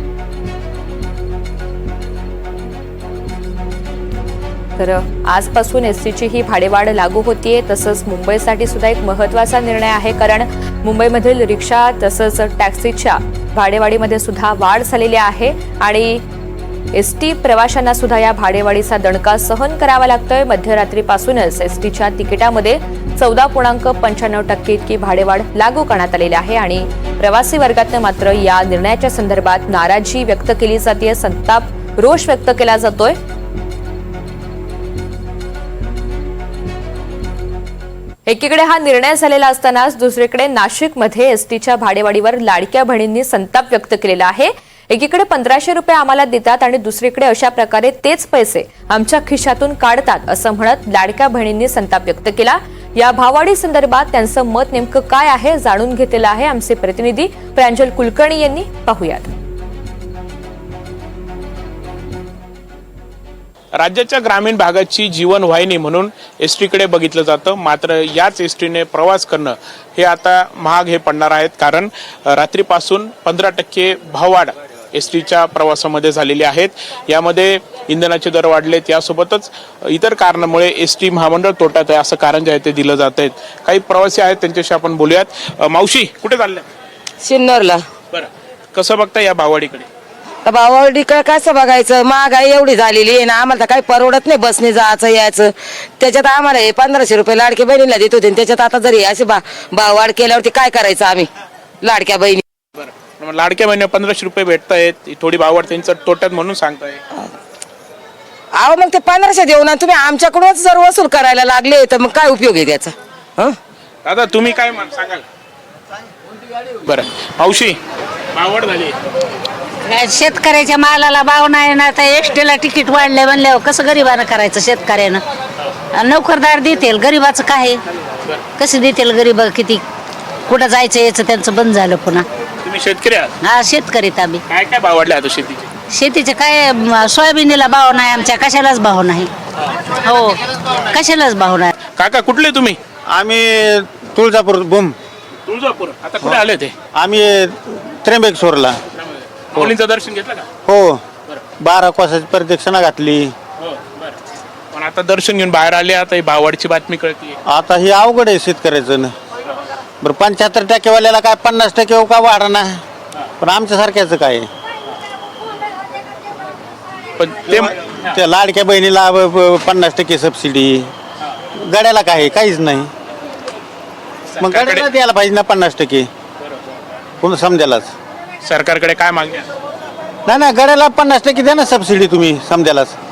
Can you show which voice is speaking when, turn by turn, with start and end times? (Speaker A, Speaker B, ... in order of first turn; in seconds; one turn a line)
Speaker A: 4.8-16.2
Speaker A: 16.9-33.2
Speaker A: 38.3-59.3
Speaker B: 63.8-86.7
Speaker C: 87.2-87.9
Speaker B: 88.1-89.9
Speaker C: 90.5-101.3
Speaker C: 101.8-102.4
Speaker B: 102.8-107.0
Speaker C: 108.5-113.6
Speaker B: 114.0-115.2
Speaker B: 116.8-117.8
Speaker B: 118.3-119.0
Speaker D: 119.8-125.2
Speaker D: 125.9-127.8
Speaker D: 128.6-129.8
Speaker D: 130.5-132.3
Speaker B: 132.6-133.3
Speaker D: 133.4-134.4
Speaker B: 134.5-135.7
Speaker D: 135.9-139.3
Speaker D: 140.0-141.7
Speaker B: 142.0-142.8
Speaker E: 143.1-144.9
Speaker B: 145.5-146.7
Speaker E: 146.9-148.8
Speaker B: 149.0-150.5
Speaker E: 150.7-151.0
Speaker E: 151.6-153.3
Speaker B: 153.6-154.2
Speaker B: 154.7-157.4
Speaker E: 157.5-159.1
Speaker E: 160.0-162.8
Speaker E: 163.4-164.5
Speaker B: 167.2-167.7
Speaker E: 167.5-170.9
Speaker E: 171.6-172.9
Speaker B: 174.3-174.9
Speaker E: 174.4-176.1
Speaker E: 177.2-177.9
Speaker B: 178.4-179.5
Speaker E: 180.3-182.9